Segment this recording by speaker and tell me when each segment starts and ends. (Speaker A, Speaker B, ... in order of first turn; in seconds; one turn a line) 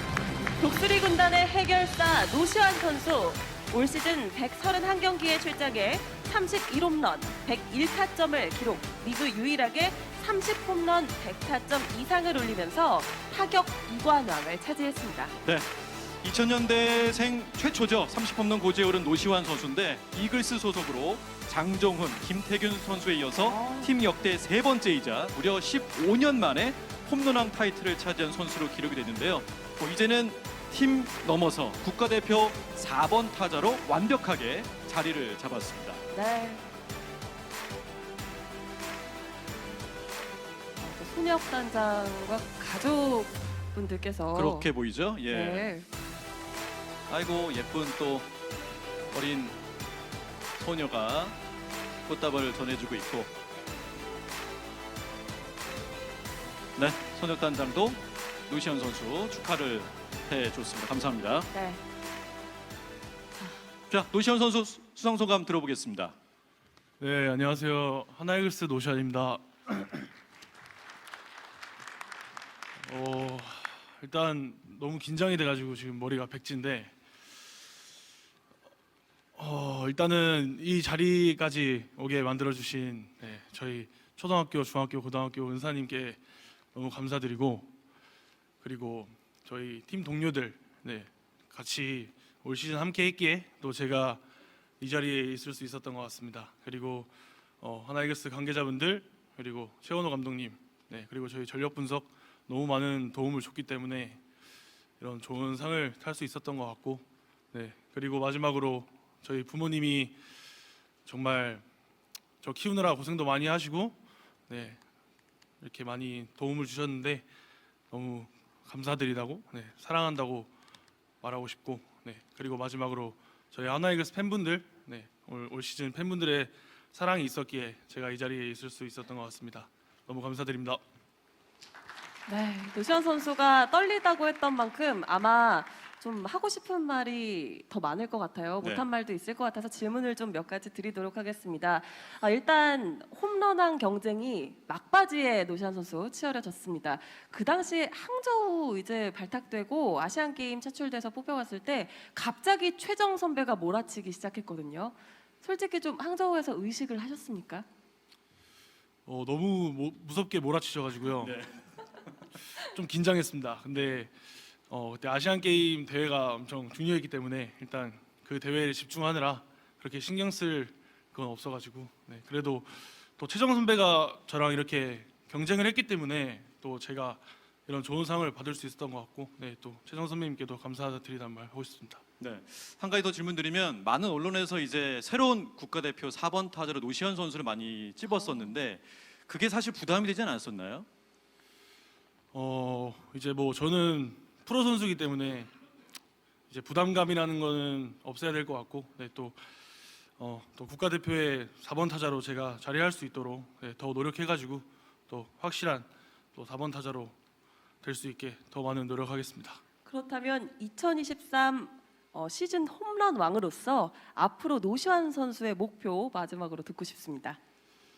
Speaker A: 0.6-15.3
Speaker B: 15.4-36.0
Speaker A: 23.4-23.9
Speaker A: 36.1-36.6
Speaker A: 40.8-44.7
Speaker B: 44.3-45.7
Speaker A: 45.3-45.9
Speaker B: 47.1-48.3
Speaker B: 49.1-49.6
Speaker B: 50.6-51.4
Speaker B: 52.1-53.3
Speaker B: 56.8-61.5
Speaker A: 61.5-61.8
Speaker B: 63.9-66.2
Speaker C: 67.0-70.1
Speaker C: 72.8-76.9
Speaker C: 79.4-86.2
Speaker C: 86.7-87.7
Speaker C: 88.6-94.2
Speaker C: 94.8-104.2
Speaker C: 105.0-110.2
Speaker C: 111.1-111.7
Speaker C: 112.4-114.0
Speaker C: 114.5-114.8
Speaker C: 115.6-117.3
Speaker C: 117.9-120.5
Speaker C: 121.2-130.8
Speaker A: 132.3-157.7
Speaker C: 159.1-161.4
Speaker B: 161.2-161.5
Speaker C: 162.6-164.1
Speaker C: 164.7-182.0
Speaker B: 182.2-190.9
Speaker C: 192.3-195.5
Speaker C: 196.5-199.4
Speaker C: 200.2-207.2
Speaker C: 207.8-209.6
Speaker A: 209.9-217.4